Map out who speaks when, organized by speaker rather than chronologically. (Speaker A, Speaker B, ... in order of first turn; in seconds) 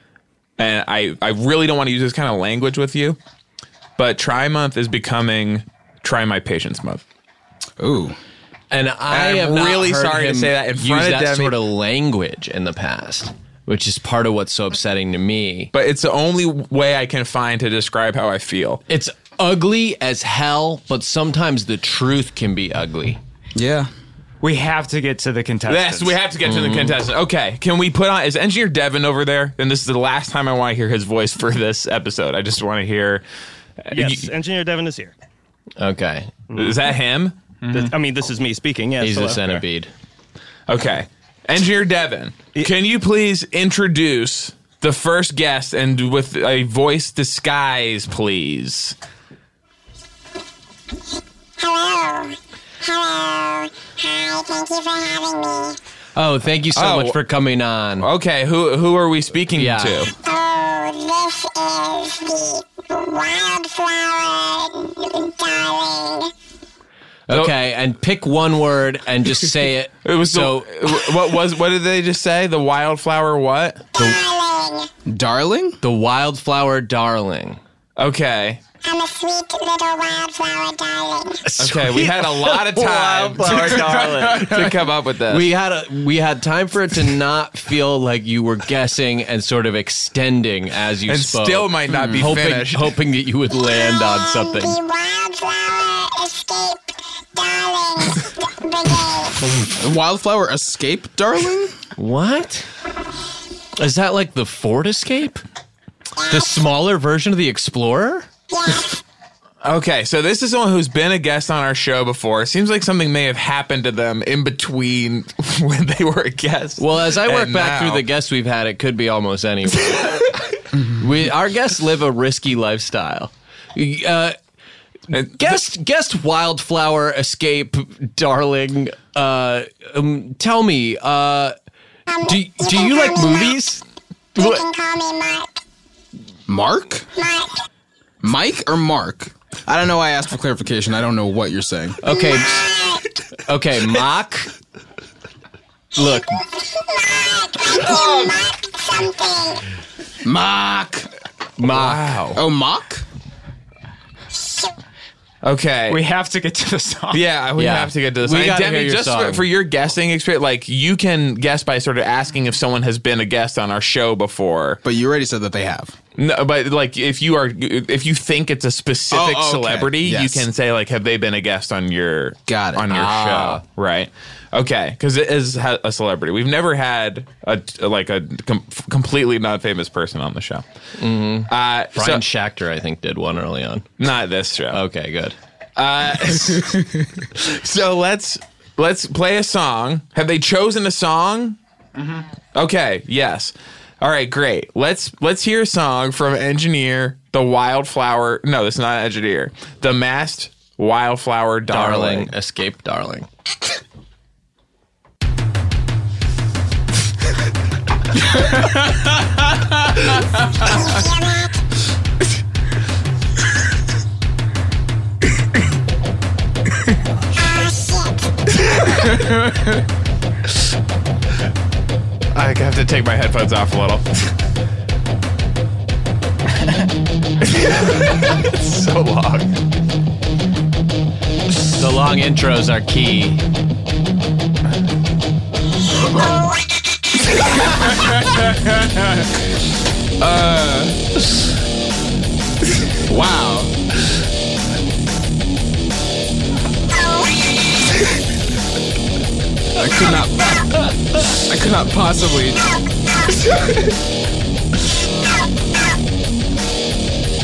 Speaker A: 0.6-3.2, 4.0-7.0, 9.1-11.6, 15.7-18.8, 25.7-33.2, 33.9-34.3, 36.5-37.4, 40.7-48.9, 56.7-57.2, 58.0-60.1, 70.0-73.8, 78.0-78.6, 81.6-85.5, 91.1-93.0, 109.6-118.1, 125.1-125.6, 147.9-148.3, 151.7-152.4, 155.4-156.0, 157.1-164.8, 166.2-180.6, 181.5-182.2, 184.0-184.8, 185.8-191.6, 192.5-202.3, 222.3-224.1, 227.4-229.5
Speaker B: 7.8-8.2, 23.5-23.9, 75.1-75.8, 91.9-92.3, 99.8-101.7, 136.5-137.1, 138.2-142.0, 150.2-151.1, 152.3-153.0, 164.8-165.9, 169.1-170.4, 172.5-172.8, 237.8-238.5, 240.2-241.0, 243.0-243.7, 249.8-250.6, 251.3-252.6
Speaker C: 8.7-15.7, 18.9-23.2, 26.4-27.0, 35.8-36.3, 39.0-39.9, 56.1-58.1, 59.5-60.1, 67.3-71.1, 75.8-77.6, 81.4-84.7, 85.3-94.8, 102.0-102.7, 103.8-105.4, 106.3-108.3, 116.8-124.3, 125.1-131.5, 132.2-133.8, 142.0-142.6, 143.4-144.5, 145.9-146.3, 151.6-152.2, 157.6-159.5, 172.9-173.6, 181.0-183.9, 184.7-185.3, 201.7-203.3, 231.8-233.4
Speaker D: 24.4-26.2, 37.7-37.9, 155.9-157.2
Speaker E: 33.9-35.1, 37.7-39.6
Speaker F: 51.6-55.8, 60.1-66.3, 73.9-74.9, 78.8-81.5, 93.5-99.4, 106.2-106.6, 108.5-109.0, 132.1-133.6, 134.3-135.6, 137.1-137.6, 142.1-143.0, 146.1-149.6, 154.4-154.7, 210.5-211.6, 217.3-218.3, 246.9-247.4, 252.6-253.5